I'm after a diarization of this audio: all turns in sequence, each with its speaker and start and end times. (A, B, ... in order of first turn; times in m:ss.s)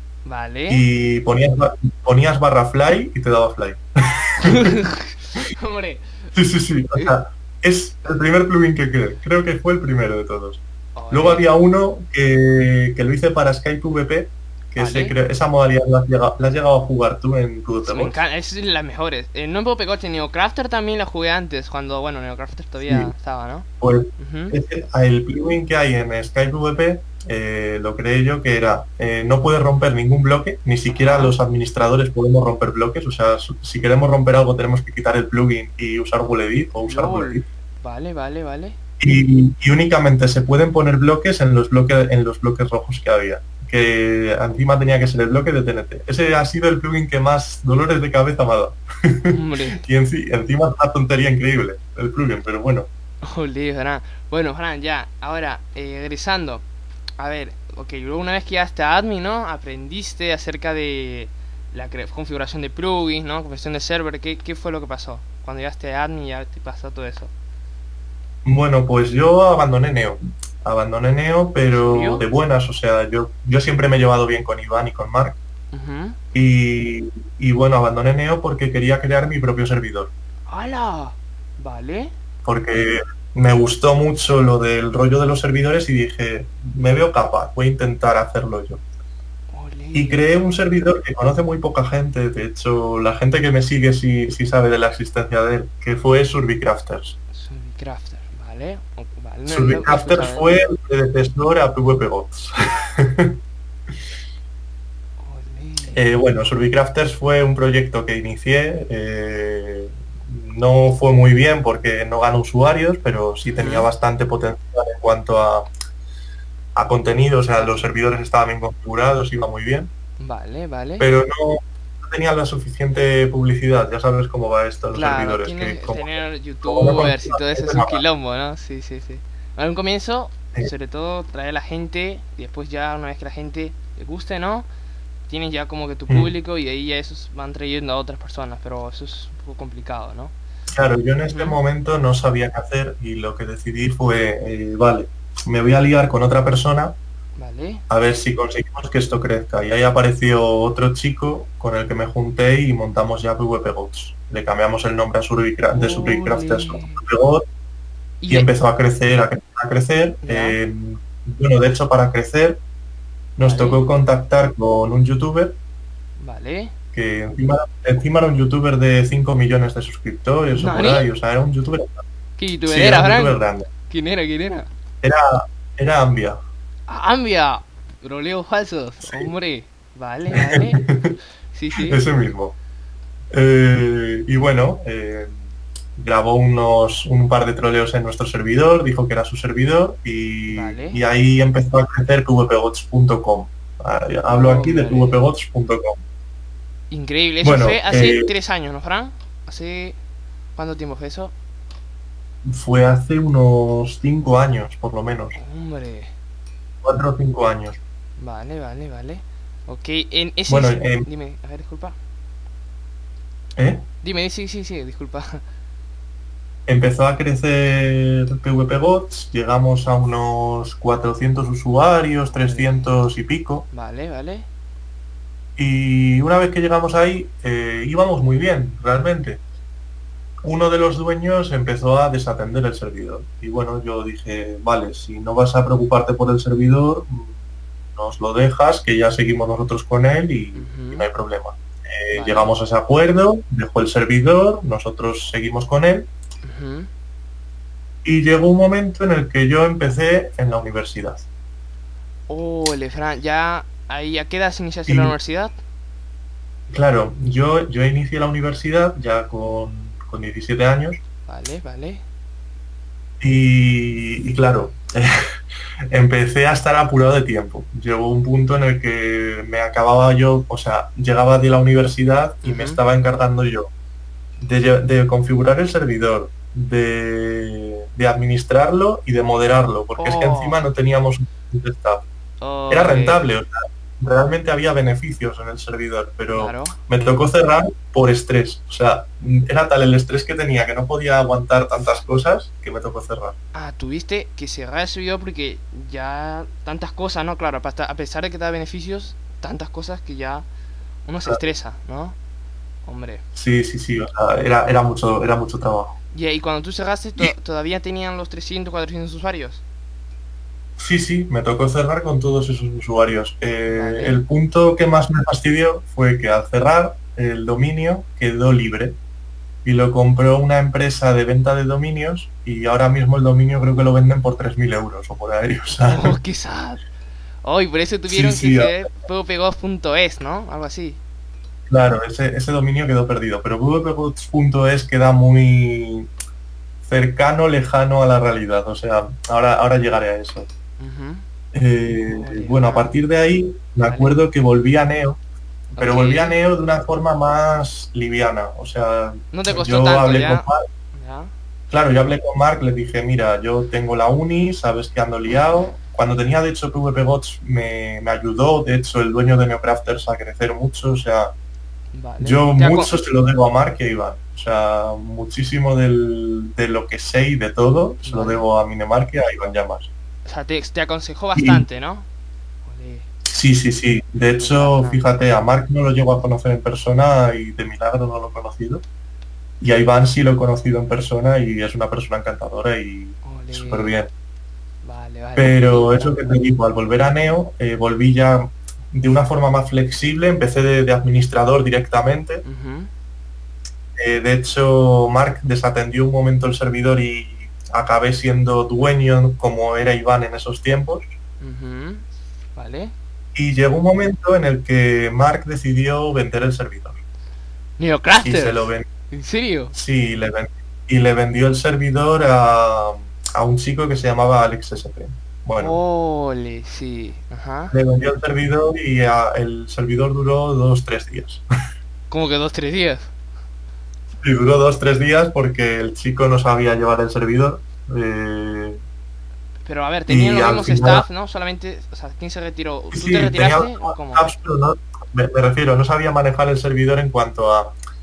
0:00.2-0:00.8 A
0:00.7-0:04.7 B
0:04.4-0:06.1 A
0:06.4-0:18.2 B
0:11.0-0:11.5 A
0:14.8-0:15.2 A
0:17.8-0:23.7 A
0:22.8-0:23.1 B
0:23.8-0:37.4 B
0:24.2-0:24.6 A
0:30.9-0:31.4 A
0:36.8-0:38.8 A
0:39.0-0:52.9 B
0:49.3-0:49.8 A
0:53.2-0:56.6 A
0:57.2-1:07.3 A
1:08.4-1:15.4 B
1:11.7-1:12.2 A
1:15.7-1:16.2 A
1:16.3-1:20.1 B
1:20.5-1:22.1 A
1:22.4-1:28.8 B
1:29.5-1:30.2 A
1:29.9-1:37.2 B
1:37.3-1:40.5 A
1:39.5-1:43.4 B
1:45.2-1:46.0 A
1:45.9-1:55.7 B
1:53.5-1:53.9 A
1:56.8-1:59.9 B
2:00.2-2:01.1 A
2:01.0-2:08.0 B
2:04.9-2:14.7 A
2:15.3-2:20.3 A
2:20.7-2:27.0 B
2:21.3-2:21.6 A
2:27.4-2:27.8 A
2:27.9-2:37.4 B
2:35.7-2:37.0 A
2:38.2-2:38.5 A
2:38.3-2:42.6 B
2:40.2-2:40.6 A
2:43.4-2:45.6 B
2:43.4-2:43.9 A
2:46.2-2:46.7 A
2:47.0-2:52.0 B
2:50.6-2:51.1 A
2:52.4-2:54.7 A
2:52.7-2:53.7 B
2:55.0-2:56.4 B
2:56.9-3:00.8 A
2:59.0-2:59.3 B
3:00.3-3:01.2 B
3:01.5-3:02.0 A
3:01.8-3:02.6 B
3:03.3-3:05.4 B
3:06.0-3:16.0 B
3:10.5-3:11.0 A
3:14.3-3:15.2 A
3:16.9-3:20.0 A
3:17.4-3:18.3 B
3:20.6-3:21.3 A
3:22.4-3:25.4 B
3:25.4-3:26.1 A
3:26.8-3:27.8 B
3:28.2-3:32.0 A
3:30.5-3:31.1 B
3:33.6-3:33.8 B
3:34.0-3:35.4 A
3:36.7-3:43.7 B
3:42.4-3:42.9 A
3:43.7-3:44.5 A
3:45.6-3:49.4 B
3:50.4-3:57.4 B
3:57.9-4:06.1 B
4:00.6-4:01.1 A
4:02.1-4:02.5 A
4:06.4-4:06.9 A
4:08.0-4:11.2 B
4:12.3-4:15.6 A
4:14.9-4:15.2 B
4:16.7-4:21.0 B
4:21.3-4:22.0 A
4:23.2-4:25.2 B
4:25.9-4:33.7 B
4:32.4-4:32.8 A
4:34.4-4:42.0 B
4:40.0-4:40.6 A
4:42.4-4:43.2 A
4:42.7-4:53.4 B
4:46.3-4:46.8 A
4:53.5-5:00.5 A
5:01.1-5:02.2 A
5:02.8-5:03.2 A
5:03.4-5:06.0 B
5:06.1-5:09.6 A
5:10.8-5:19.0 B
5:13.7-5:14.2 A
5:19.6-5:26.2 B
5:25.8-5:26.8 A
5:27.4-5:31.0 A
5:28.1-5:28.9 B
5:31.7-5:36.1 B
5:36.8-5:40.5 B
5:40.8-5:41.2 A
5:41.5-5:45.2 B
5:42.1-5:43.0 A
5:43.8-5:44.2 A
5:45.7-5:50.6 B
5:45.8-5:46.4 A
5:49.3-5:51.3 A
5:51.7-6:01.3 B
6:01.9-6:03.0 A
6:02.2-6:09.9 B
6:08.0-6:08.5 A
6:10.3-6:12.1 A
6:11.4-6:11.6 B
6:12.7-6:13.1 A
6:13.3-6:18.8 B
6:14.4-6:15.0 A
6:19.6-6:24.1 B
6:23.2-6:24.0 A
6:24.8-6:26.4 A
6:25.4-6:32.4 B
6:32.4-6:32.9 A
6:34.0-6:41.1 B
6:41.4-6:42.0 A
6:42.6-6:42.9 A
6:43.4-6:47.0 B
6:47.8-6:49.8 A
6:48.2-6:48.9 B
6:49.7-6:55.8 B
6:55.6-6:57.7 A
6:57.7-7:01.4 B
7:02.1-7:03.1 A
7:04.2-7:08.8 B
7:09.6-7:14.3 A
7:10.1-7:11.1 B
7:12.9-7:17.7 B